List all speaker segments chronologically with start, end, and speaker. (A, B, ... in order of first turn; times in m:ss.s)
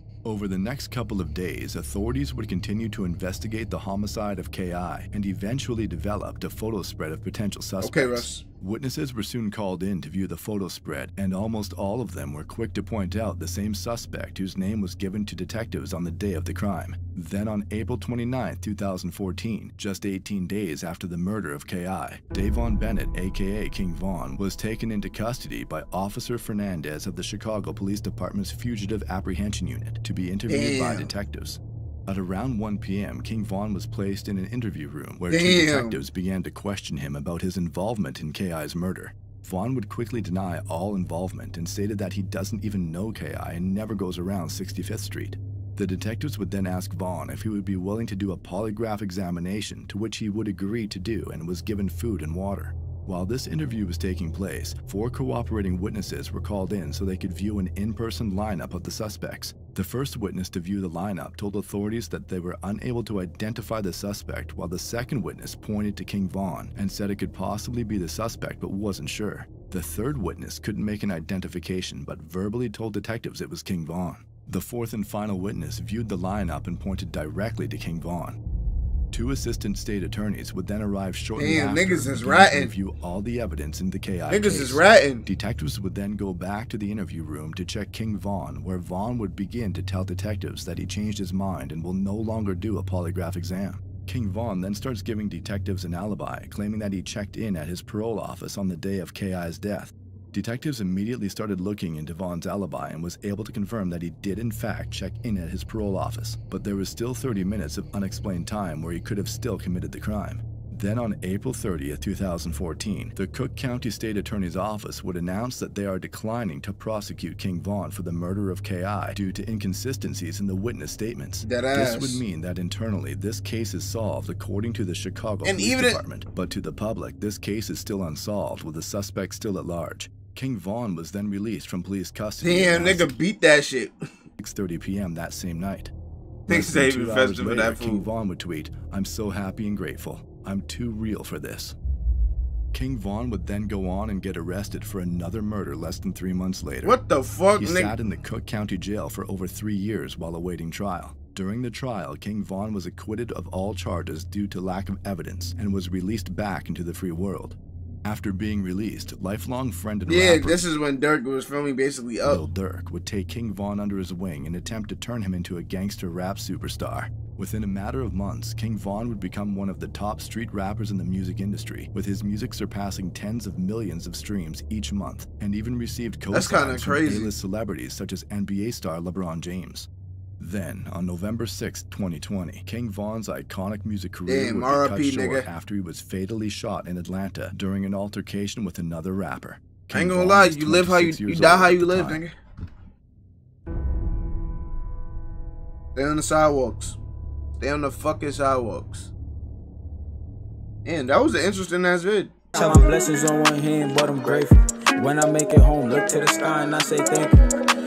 0:00.2-1:18.4 A
0:07.8-0:08.4 B
0:30.5-0:31.1 B
0:35.3-0:36.0 B
1:19.1-2:13.1 A
1:21.4-1:22.7 B
1:24.3-1:25.2 B
2:01.4-2:02.2 B
2:05.4-2:06.0 B
2:12.4-2:13.9 B
2:14.4-2:15.9 A
2:16.5-2:18.0 B
2:16.5-2:21.8 A
2:22.7-2:27.0 A
2:26.8-2:27.9 B
2:27.6-2:40.6 A
2:40.0-2:42.4 B
2:42.2-2:59.9 A
2:56.3-2:57.3 B
3:00.4-3:12.2 A
3:04.3-3:05.5 B
3:09.9-3:12.3 B
3:15.9-3:17.0 B
3:17.6-3:19.1 B
3:20.8-3:22.4 B
3:22.5-3:27.4 C